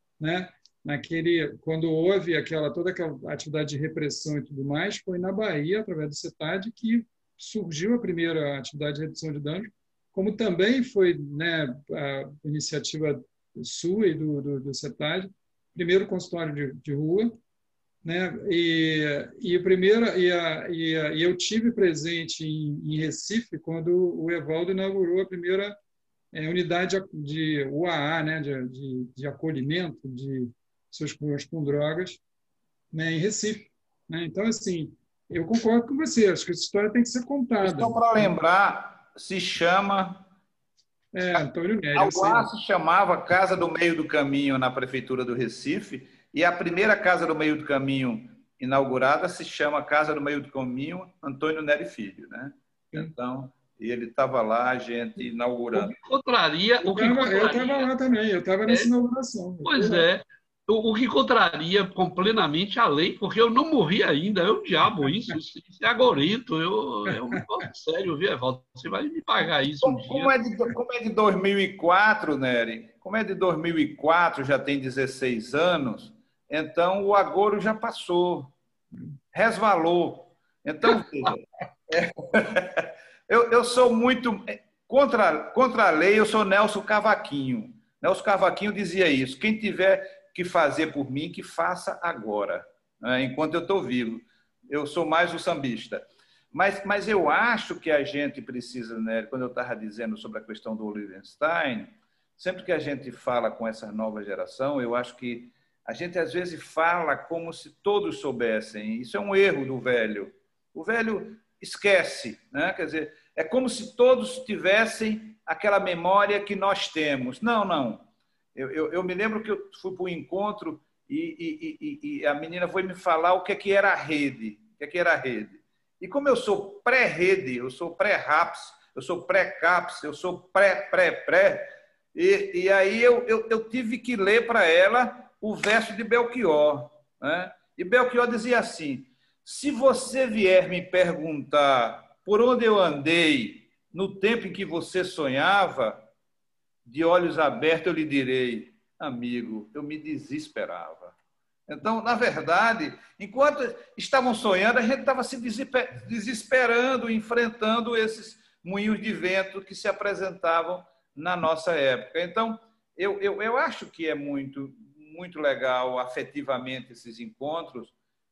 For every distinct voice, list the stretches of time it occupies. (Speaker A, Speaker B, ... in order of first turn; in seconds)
Speaker A: 0.2-17.4, 18.0-25.8, 26.3-32.2, 32.9-38.3, 41.1-42.5, 56.8-60.0
Speaker B: 37.6-40.2, 41.9-55.9, 69.8-78.5, 79.3-146.1, 146.8-151.1, 151.7-167.9
Speaker C: 55.7-57.9, 59.6-70.3